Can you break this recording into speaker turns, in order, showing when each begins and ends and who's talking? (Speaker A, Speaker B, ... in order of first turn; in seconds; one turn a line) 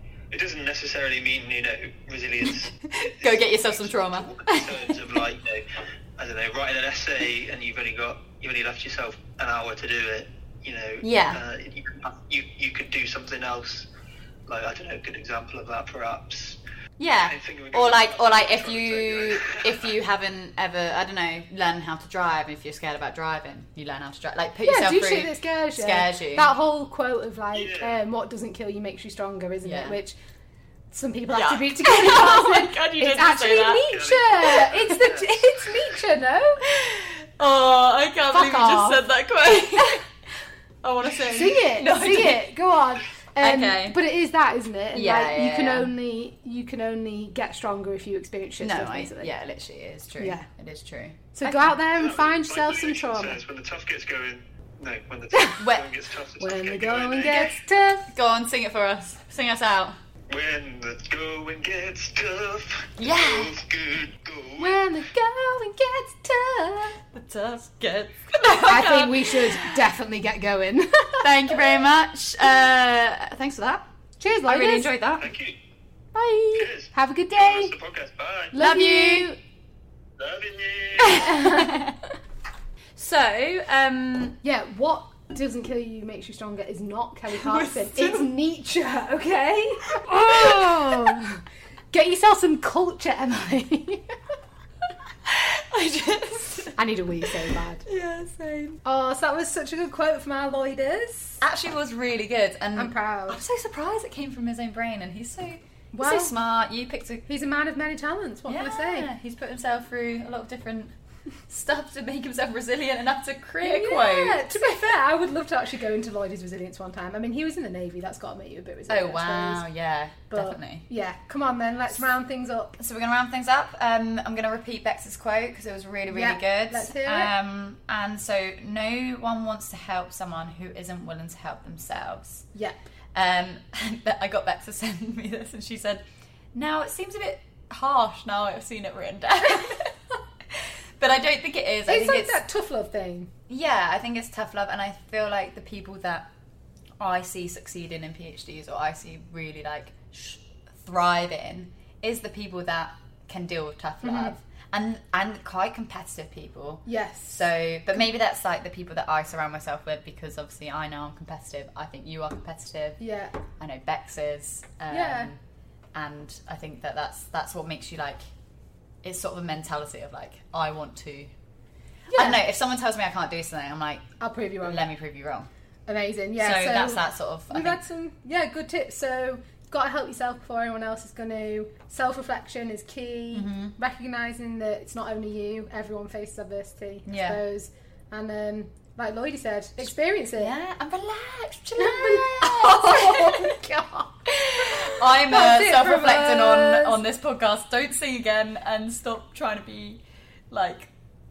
Speaker A: 0.3-5.7
Speaker B: 2.5-5.1
Speaker A: 6.2-13.9
Speaker B: 11.0-11.4
Speaker A: 14.5-16.6
Speaker B: 17.0-26.5
Speaker A: 17.2-19.9
Speaker C: 24.6-30.2
Speaker A: 27.5-28.0
Speaker B: 29.6-30.0
Speaker C: 30.9-36.6
Speaker B: 31.3-33.9
Speaker A: 33.9-35.7
Speaker B: 34.4-35.0
Speaker B: 36.6-40.0
Speaker C: 38.3-39.0
Speaker B: 40.8-42.5
Speaker C: 41.0-49.3
Speaker B: 43.4-44.0
Speaker B: 44.9-45.9
Speaker B: 48.6-51.8
Speaker C: 50.2-50.5
Speaker C: 51.3-53.4
Speaker A: 51.9-57.6
Speaker B: 55.5-55.9
Speaker C: 56.4-58.1
Speaker B: 58.1-60.0
Speaker A: 60.3-64.8
Speaker B: 63.0-63.5
Speaker C: 64.6-67.0
Speaker B: 67.1-69.9
Speaker C: 68.6-71.7
Speaker B: 71.2-73.9
Speaker C: 74.2-74.9
Speaker B: 74.5-75.3
Speaker A: 75.2-75.6
Speaker B: 76.2-76.7
Speaker A: 76.5-78.6
Speaker C: 76.9-77.7
Speaker C: 78.5-79.4
Speaker B: 78.5-79.3
Speaker A: 80.2-81.4
Speaker B: 81.0-82.0
Speaker C: 81.2-81.8
Speaker B: 83.0-84.4
Speaker C: 84.4-94.2
Speaker B: 87.3-88.3
Speaker B: 90.3-91.2
Speaker B: 95.2-98.8
Speaker C: 96.8-97.9
Speaker C: 98.8-101.4
Speaker B: 101.4-107.2
Speaker C: 102.8-103.4
Speaker C: 105.9-106.3
Speaker C: 107.3-109.1
Speaker B: 108.5-110.9
Speaker B: 111.5-114.8
Speaker C: 113.6-119.6
Speaker B: 118.9-120.8
Speaker C: 120.3-122.8
Speaker B: 122.8-132.5
Speaker C: 126.1-127.3
Speaker C: 132.5-132.9
Speaker B: 133.1-142.4
Speaker C: 141.9-143.3
Speaker B: 143.5-146.3
Speaker B: 147.0-163.0
Speaker C: 154.0-154.3
Speaker C: 156.9-157.5
Speaker C: 163.0-163.4
Speaker B: 163.6-165.4
Speaker C: 164.9-165.3
Speaker B: 165.9-168.2
Speaker B: 169.0-171.3
Speaker C: 172.1-172.4
Speaker B: 172.1-175.5
Speaker C: 174.2-174.9
Speaker C: 175.9-190.6
Speaker B: 176.4-177.8
Speaker B: 183.3-183.7
Speaker B: 187.1-187.4
Speaker B: 190.4-193.6
Speaker C: 191.8-197.0
Speaker B: 194.3-200.9